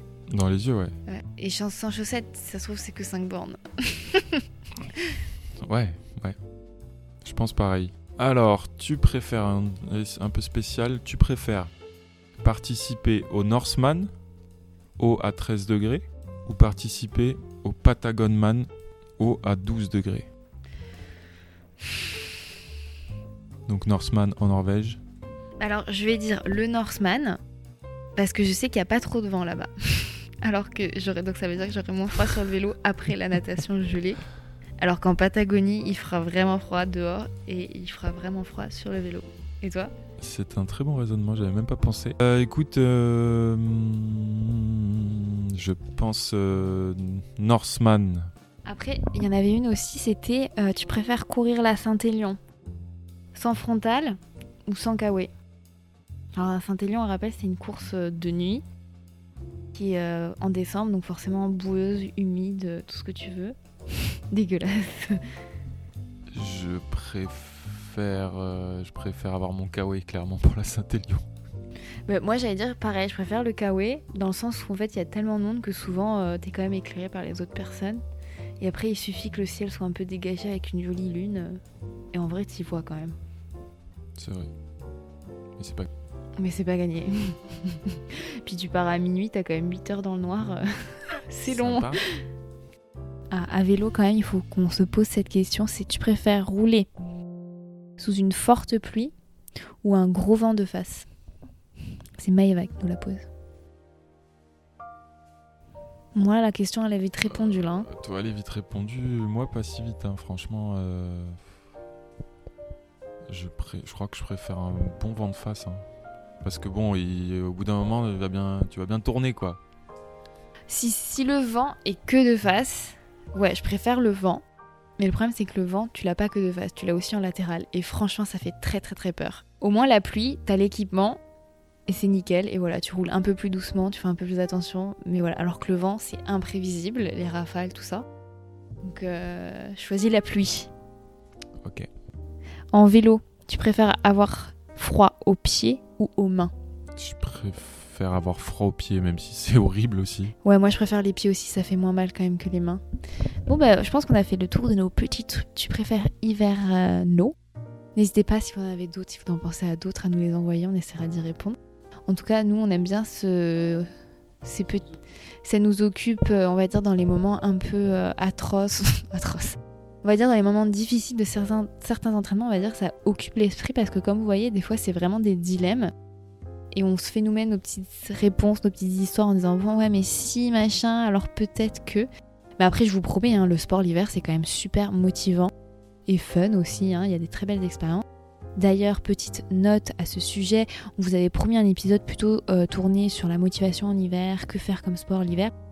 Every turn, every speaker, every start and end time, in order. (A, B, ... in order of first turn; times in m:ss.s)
0:00.3-0:00.9 A
0:01.1-0:04.4 B
0:05.6-0:06.4 A
0:07.2-0:11.7 A
0:12.4-0:14.1 A
0:15.0-0:20.3 A
0:23.7-0:25.0 A
0:25.6-0:27.4 B
0:28.2-0:34.2 B
0:34.8-0:39.9 B
0:40.2-0:48.3 A
0:48.7-0:52.4 B
0:53.3-0:55.3 B
0:56.4-0:58.6 B
0:59.7-1:03.6 B
1:04.3-1:05.2 B
1:06.3-1:11.3 A
1:12.1-1:18.0 B
1:18.6-1:21.6 B
1:22.1-1:23.2 B
1:24.2-1:24.5 A
1:25.6-1:25.9 A
1:26.4-1:32.0 B
1:31.5-1:32.0 A
1:33.3-1:36.9 B
1:38.0-1:39.1 B
1:39.8-1:41.1 B
1:42.2-1:43.2 B
1:46.2-1:47.9 B
1:47.3-1:51.4 A
1:53.3-1:55.8 A
1:56.4-1:59.6 A
2:00.7-2:04.4 B
2:05.0-2:11.2 B
2:11.9-2:18.1 B
2:18.8-2:20.7 B
2:21.6-2:21.9 A
2:22.7-2:26.5 B
2:27.0-2:30.3 A
2:30.4-2:32.8 B
2:33.5-2:37.4 B
2:38.0-2:43.9 B
2:44.4-2:55.9 B
2:56.7-3:02.1 B
3:02.6-3:05.5 B
3:06.1-3:08.0 B
3:08.6-3:15.5 B